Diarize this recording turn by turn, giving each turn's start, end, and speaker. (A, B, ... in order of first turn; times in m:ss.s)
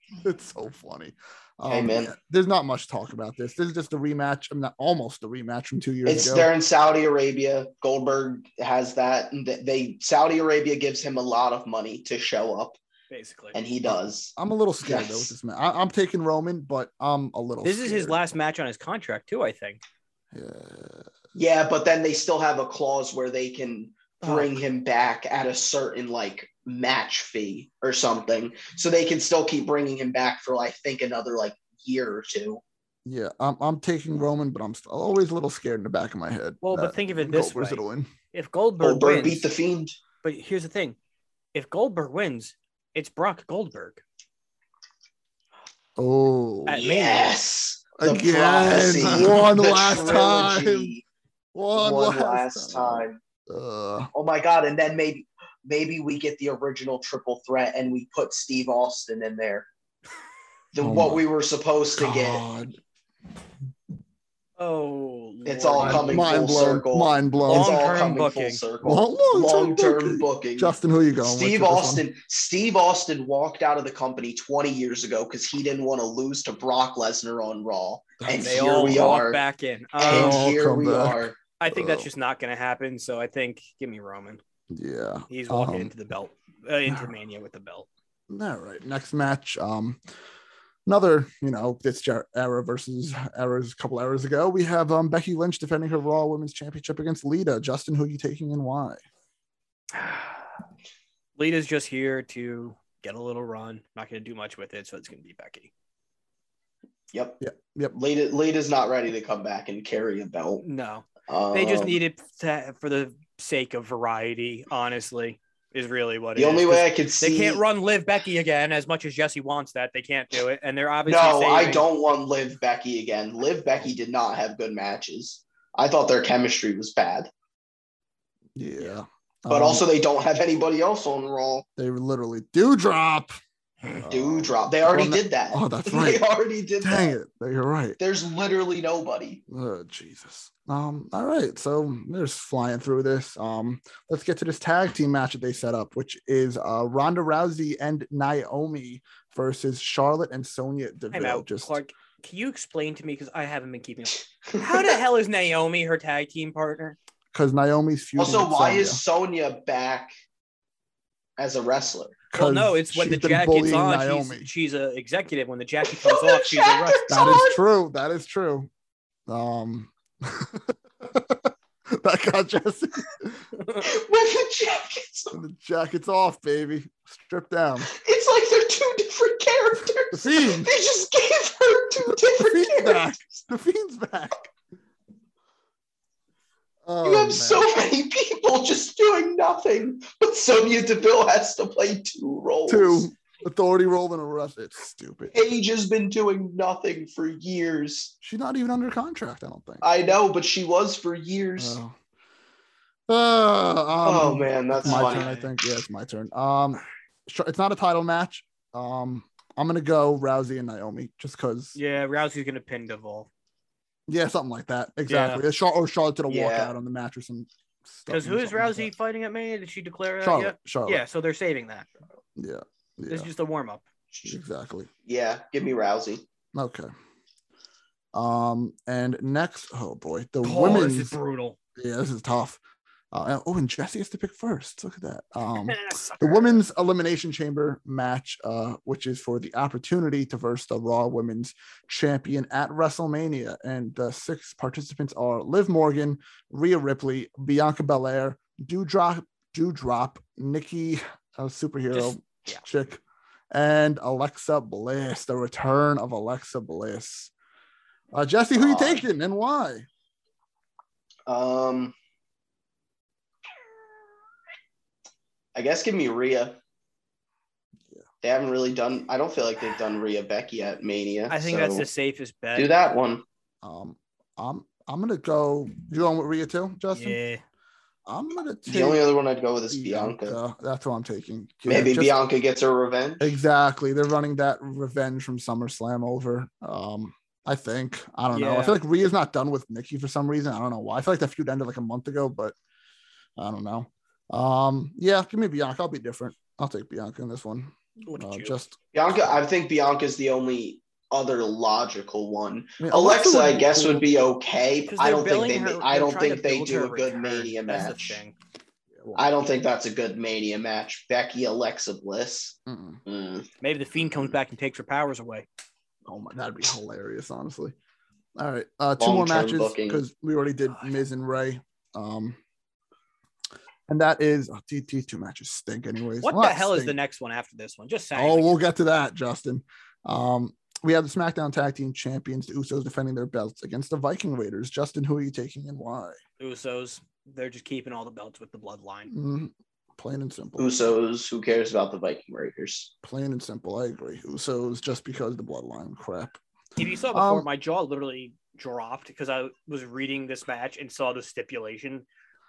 0:00.2-0:06.5 A
0:01.7-0:02.1 B
0:06.1-0:12.8 B
0:13.1-0:13.6 C
0:13.5-0:15.4 B
0:13.9-0:18.2 A
0:17.6-0:19.8 C
0:20.3-0:21.1 A
0:21.4-0:32.6 B
0:24.2-0:24.5 C
0:33.0-0:38.1 A
0:36.6-0:37.8 C
0:38.3-0:39.5 C
0:38.8-0:40.0 B
0:40.2-0:41.0 C
0:41.5-0:44.0 C
0:46.0-0:46.8 A
0:46.7-0:47.4 C
0:46.8-0:51.0 B
0:48.0-0:50.9 A
0:51.5-0:54.1 A
0:51.8-0:53.2 B
0:54.1-0:59.7 B
1:00.7-1:02.4 B
1:00.8-1:01.2 A
1:02.0-1:02.8 A
1:04.6-1:06.4 C
1:05.5-1:19.4 B
1:05.8-1:07.8 A
1:07.5-1:08.6 C
1:08.8-1:12.0 A
1:18.2-1:19.2 A
1:18.4-1:20.5 C
1:20.0-1:21.4 B
1:20.1-1:22.1 A
1:21.6-1:24.4 C
1:24.7-1:25.9 A
1:25.3-1:27.9 C
1:28.3-1:30.0 A
1:30.9-1:39.0 A
1:39.9-1:40.4 C
1:41.4-1:45.7 C
1:47.1-1:47.4 B
1:47.4-1:48.0 A
1:47.9-1:50.6 B
1:50.6-2:01.9 C
1:51.3-1:52.0 B
1:56.4-1:57.6 B
2:01.1-2:07.3 B
2:08.6-2:09.8 A
2:09.5-2:11.7 B
2:11.8-2:13.3 A
2:13.9-2:16.2 A
2:14.1-2:17.1 B
2:16.8-2:18.0 A
2:18.0-2:19.4 B
2:19.5-2:31.8 A
2:31.1-2:37.0 C
2:34.5-2:34.9 B
2:37.3-2:39.0 A
2:38.2-2:40.1 B
2:41.4-2:42.2 B
2:42.3-2:44.5 A
2:42.4-2:47.3 C
2:45.9-2:47.6 B
2:47.1-2:48.7 A
2:49.3-2:53.5 A
2:53.8-2:55.4 B
2:55.3-2:57.9 A
2:57.9-3:03.2 B
3:00.1-3:00.7 A
3:02.0-3:04.5 A
3:06.8-3:07.6 A
3:07.0-3:13.1 B
3:12.7-3:15.3 A
3:15.3-3:18.1 B
3:18.2-3:19.9 A
3:19.8-3:21.8 B
3:21.6-3:22.0 A
3:23.1-3:31.8 A
3:24.0-3:25.3 B
3:24.8-3:25.5 C
3:31.8-3:33.3 C
3:34.1-3:38.9 A
3:35.1-3:35.4 C
3:36.3-3:36.7 B
3:38.1-3:41.9 C
3:40.2-3:41.0 A
3:42.4-3:43.3 A
3:43.1-3:43.8 C
3:44.2-3:44.9 A
3:45.1-3:46.2 B
3:46.5-3:46.9 A
3:48.1-3:51.1 A
3:50.4-3:51.6 C
3:51.8-3:52.6 A
3:53.1-4:17.3 A
3:55.6-3:56.6 C
4:11.9-4:12.6 C
4:18.1-4:19.9 A
4:18.6-4:19.0 B
4:21.3-4:22.0 B
4:25.6-4:26.6 B
4:28.2-4:31.9 B
4:31.3-4:32.7 C
4:32.6-4:33.2 B
4:33.6-4:37.2 A
4:36.9-4:37.4 C
4:38.1-4:39.0 A
4:38.7-4:40.4 B
4:39.7-4:42.1 A
4:41.7-4:43.3 B
4:43.2-4:52.6 A
4:48.3-4:48.8 C
4:53.4-4:59.4 A
4:58.1-4:58.6 C
4:58.9-5:08.2 B
5:02.8-5:04.1 A
5:04.9-5:08.4 C
5:09.0-5:09.2 A
5:09.2-5:13.5 B
5:12.7-5:13.0 A
5:13.6-5:15.5 C
5:16.1-5:17.7 A
5:18.4-5:22.4 A
5:19.0-5:20.0 B
5:23.9-5:27.0 A
5:26.2-5:28.6 C
5:28.2-5:36.2 A
5:36.4-5:39.1 C
5:39.1-5:41.0 A
5:40.6-5:42.9 B
5:43.0-5:46.4 A
5:46.8-5:52.1 C
5:47.1-5:47.5 A